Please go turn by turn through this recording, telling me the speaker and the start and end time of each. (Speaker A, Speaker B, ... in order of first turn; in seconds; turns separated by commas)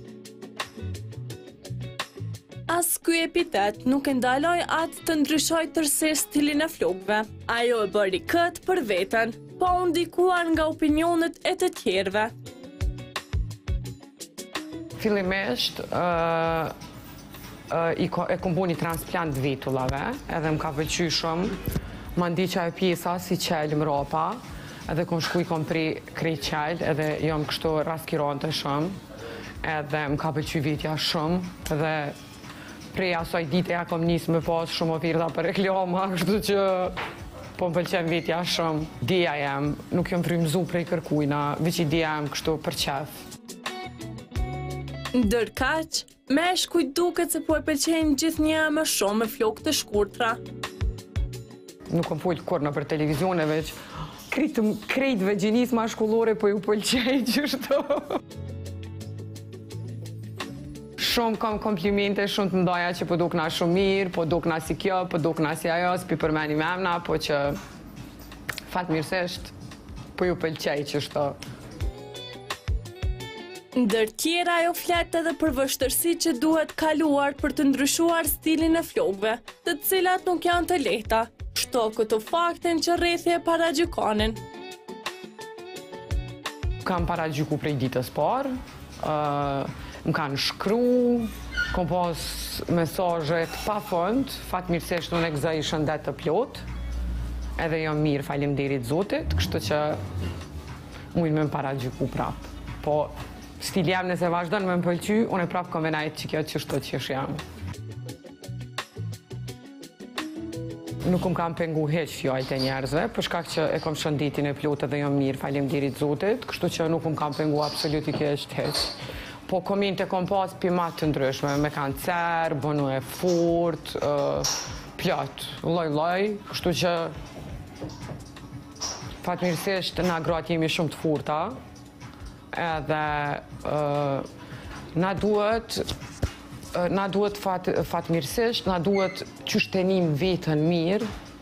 Speaker A: 2.7-12.3, Speaker B: 15.0-16.7, Speaker B: 17.7-21.6, Speaker B: 22.1-28.9, Speaker B: 29.6-32.1, Speaker B: 32.9-36.9, Speaker B: 37.5-43.1, Speaker A: 45.1-50.4, Speaker B: 51.9-53.8, Speaker B: 54.3-58.2, Speaker B: 61.0-67.6, Speaker B: 68.7-69.5, Speaker B: 70.2-71.3, Speaker A: 73.7-84.4, Speaker B: 86.8-88.5, Speaker B: 89.0-96.6, Speaker B: 97.6-100.0, Speaker B: 101.1-107.4, Speaker B: 111.0-127.1, Speaker B: 129.2-131.5, Speaker B: 132.5-134.2, Speaker B: 134.9-135.8, Speaker B: 136.7-141.1